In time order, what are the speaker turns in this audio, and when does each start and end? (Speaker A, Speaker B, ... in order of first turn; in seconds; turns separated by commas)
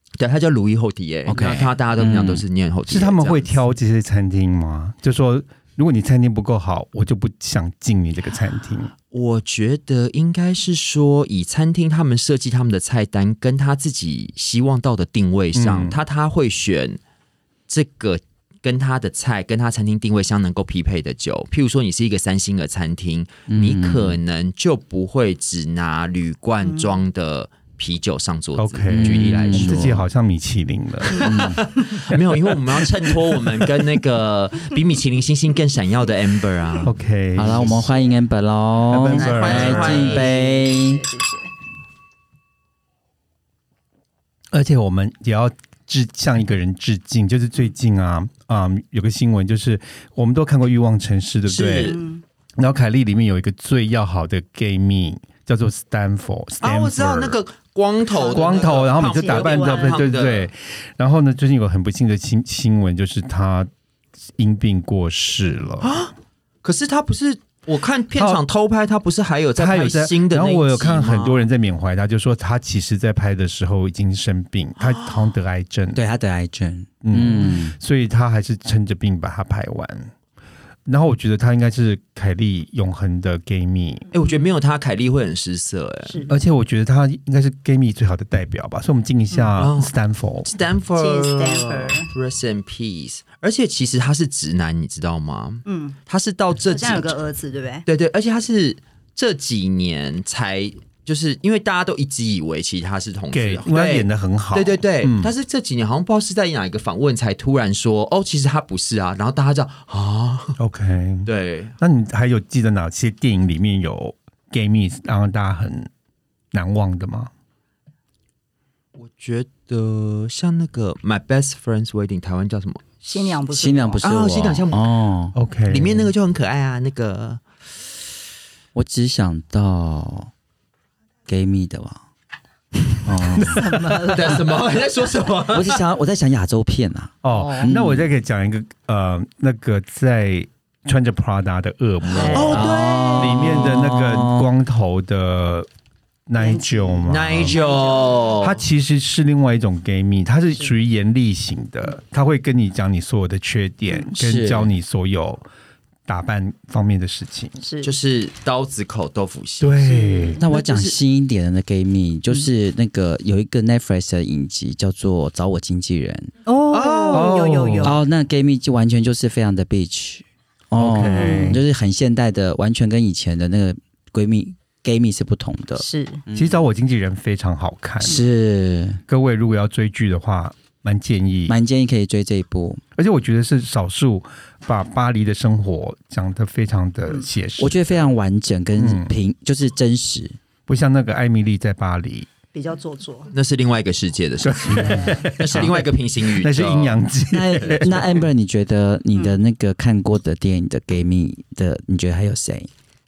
Speaker A: 0.2-3.6, Speaker B: 1.3-2.4, Speaker C: 2.9-8.9, Speaker A: 9.1-17.0, Speaker C: 15.6-16.0, Speaker A: 17.7-30.0, Speaker B: 23.5-24.2, Speaker D: 26.7-26.9, Speaker C: 28.6-31.6, Speaker B: 28.9-30.0, Speaker A: 31.1-37.7, Speaker B: 31.2-31.6, Speaker C: 32.8-33.6, Speaker C: 36.8-37.8, Speaker B: 37.4-41.0, Speaker C: 38.9-40.1, Speaker A: 39.0-40.3, Speaker D: 39.9-41.4, Speaker C: 44.5-52.0, Speaker A: 51.5-52.0, Speaker D: 51.9-52.2, Speaker C: 52.6-57.4, Speaker A: 56.6-60.5, Speaker D: 58.1-60.0, Speaker C: 58.3-63.7, Speaker C: 64.4-65.9, Speaker A: 65.8-66.1, Speaker A: 66.6-71.5, Speaker C: 68.2-68.4, Speaker C: 69.6-76.0, Speaker B: 75.9-77.8, Speaker C: 77.0-80.1, Speaker C: 80.9-84.1, Speaker A: 84.1-86.2, Speaker D: 86.1-86.3, Speaker C: 86.3-90.5, Speaker A: 89.6-89.9, Speaker A: 90.5-97.2, Speaker D: 91.0-92.1, Speaker D: 95.7-96.0, Speaker D: 96.7-97.8, Speaker A: 97.9-110.6, Speaker C: 103.3-105.3, Speaker C: 110.6-111.3, Speaker A: 111.2-111.8, Speaker C: 111.8-115.9, Speaker C: 116.5-117.3, Speaker A: 119.0-122.8, Speaker D: 123.0-124.1, Speaker B: 123.5-125.3, Speaker A: 124.0-124.8, Speaker C: 125.3-126.1, Speaker A: 125.7-127.4, Speaker B: 128.8-130.3, Speaker B: 131.3-132.0, Speaker B: 133.0-133.7, Speaker C: 133.4-134.1, Speaker D: 133.5-134.3, Speaker A: 134.1-135.8, Speaker B: 135.5-138.1, Speaker C: 137.2-145.7, Speaker D: 137.3-137.7, Speaker D: 142.2-142.6, Speaker A: 142.2-143.8, Speaker B: 142.4-144.5, Speaker C: 146.3-147.6, Speaker D: 146.4-148.4, Speaker A: 147.0-148.6, Speaker C: 148.4-155.4, Speaker B: 154.2-154.7, Speaker C: 156.1-157.6, Speaker D: 157.6-157.9, Speaker A: 157.8-159.9, Speaker C: 159.6-160.8, Speaker D: 159.8-160.4, Speaker B: 160.4-166.3, Speaker D: 166.5-168.0, Speaker C: 166.8-168.0, Speaker B: 167.8-176.6, Speaker C: 170.8-171.6, Speaker D: 171.0-171.6, Speaker D: 175.8-176.2, Speaker C: 176.3-178.2, Speaker B: 178.0-179.0, Speaker C: 179.1-181.6, Speaker B: 181.5-182.8, Speaker C: 183.0-187.8, Speaker B: 187.6-190.4, Speaker C: 188.8-189.1, Speaker C: 190.7-192.3, Speaker D: 192.5-193.3, Speaker A: 193.3-197.1, Speaker C: 194.4-198.2, Speaker D: 194.7-195.2, Speaker B: 197.3-202.7